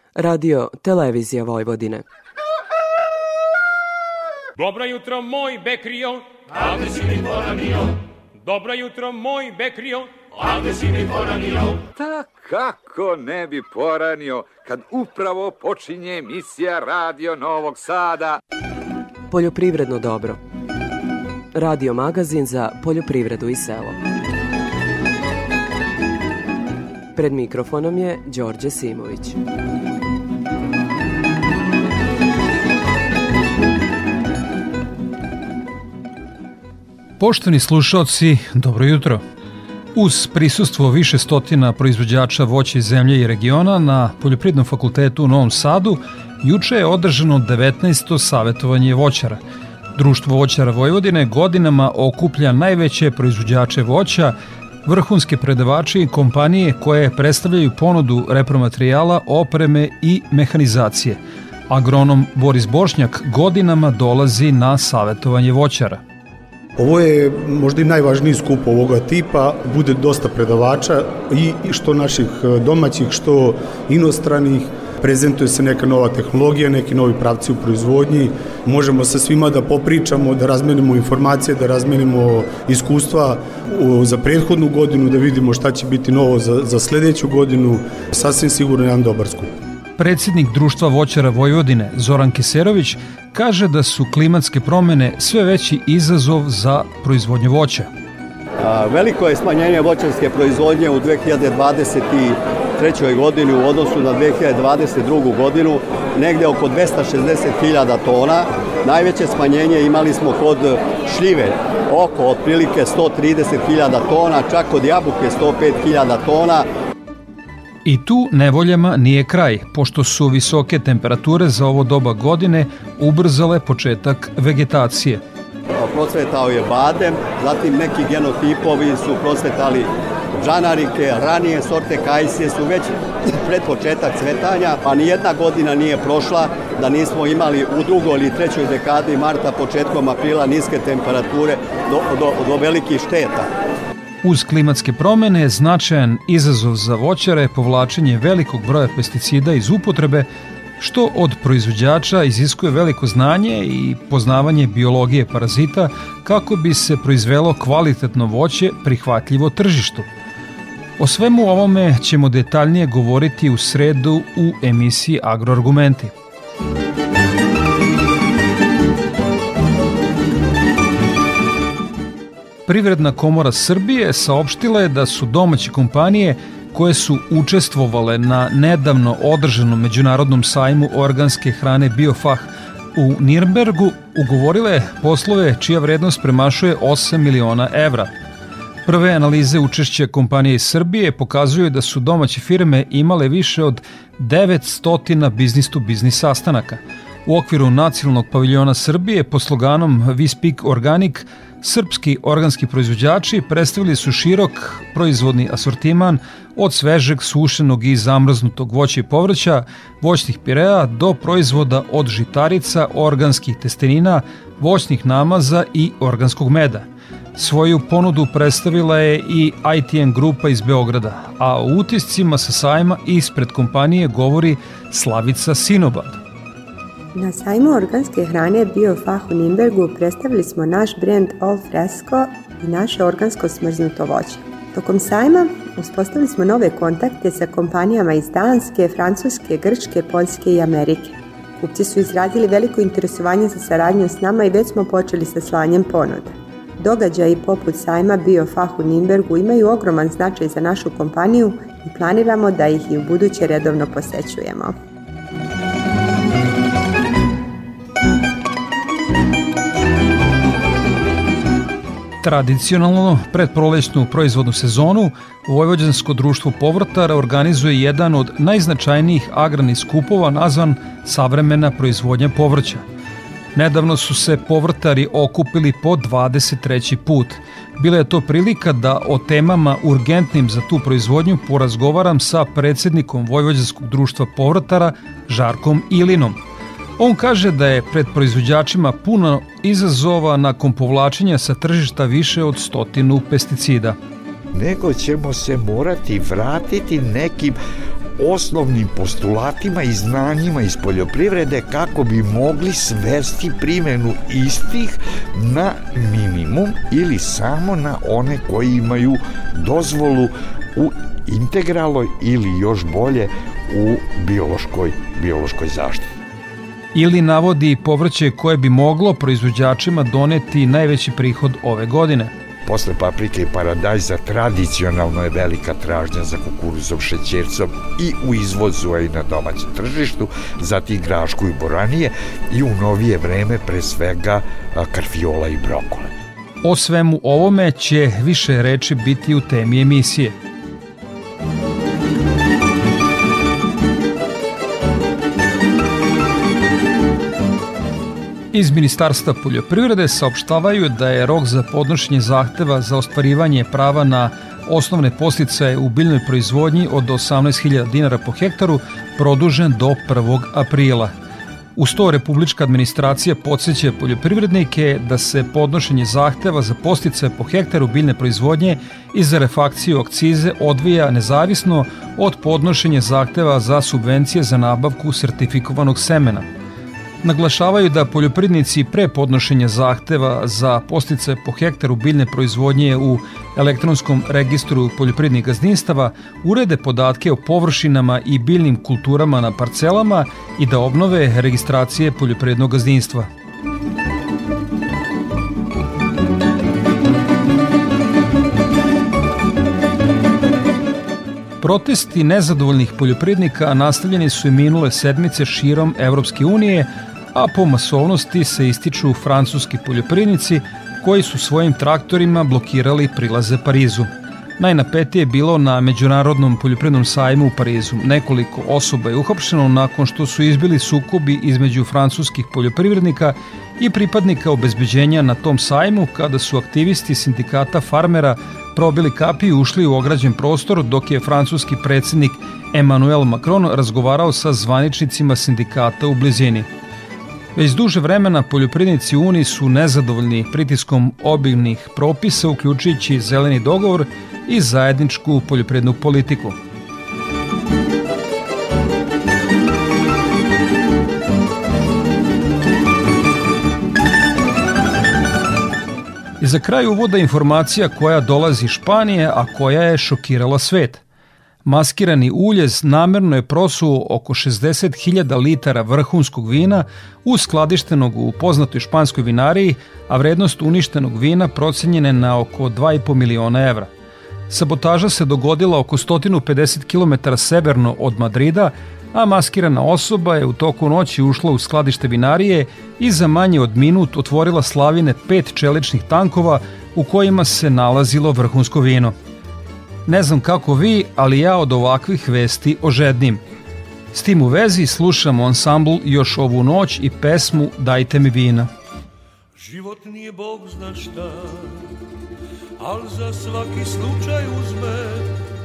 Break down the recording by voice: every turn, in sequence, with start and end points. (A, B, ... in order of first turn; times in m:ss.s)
0:00.2-0:02.0 A
0:04.6-0:11.8 B
0:11.9-0:18.4 C
0:19.3-0:20.4 A
0:21.5-0:24.0 A
0:27.1-0:29.4 A
0:37.2-0:39.2 D
0:39.9-0:49.4 D
0:49.9-1:06.0 D
1:06.8-1:29.5 E
1:30.0-1:37.9 D
1:38.6-1:56.6 F
1:57.8-2:05.2 D
2:05.8-2:09.9 F
2:10.4-2:23.5 F
2:24.2-2:30.3 D
2:30.8-2:40.1 D
2:41.0-2:46.1 D
2:52.7-3:08.1 D
3:08.8-3:46.2 D
3:47.1-4:14.8 G
4:22.2-4:32.8 D
4:33.5-4:46.4 D
4:47.0-4:54.0 D
4:54.5-4:57.6 H
4:58.2-5:16.2 H
5:16.9-5:22.3 D
5:22.6-5:36.1 H
5:36.6-5:40.4 D
5:48.5-6:01.1 D
6:01.8-6:16.5 D
6:17.2-6:33.3 D
6:41.6-7:16.7 D
7:17.6-7:26.6 D
7:36.4-7:41.0 D
7:41.6-7:53.9 D
7:54.5-8:09.1 D
8:10.0-8:13.4 D
8:14.1-8:18.7 D
8:19.6-8:21.8 I
8:22.8-8:25.3 I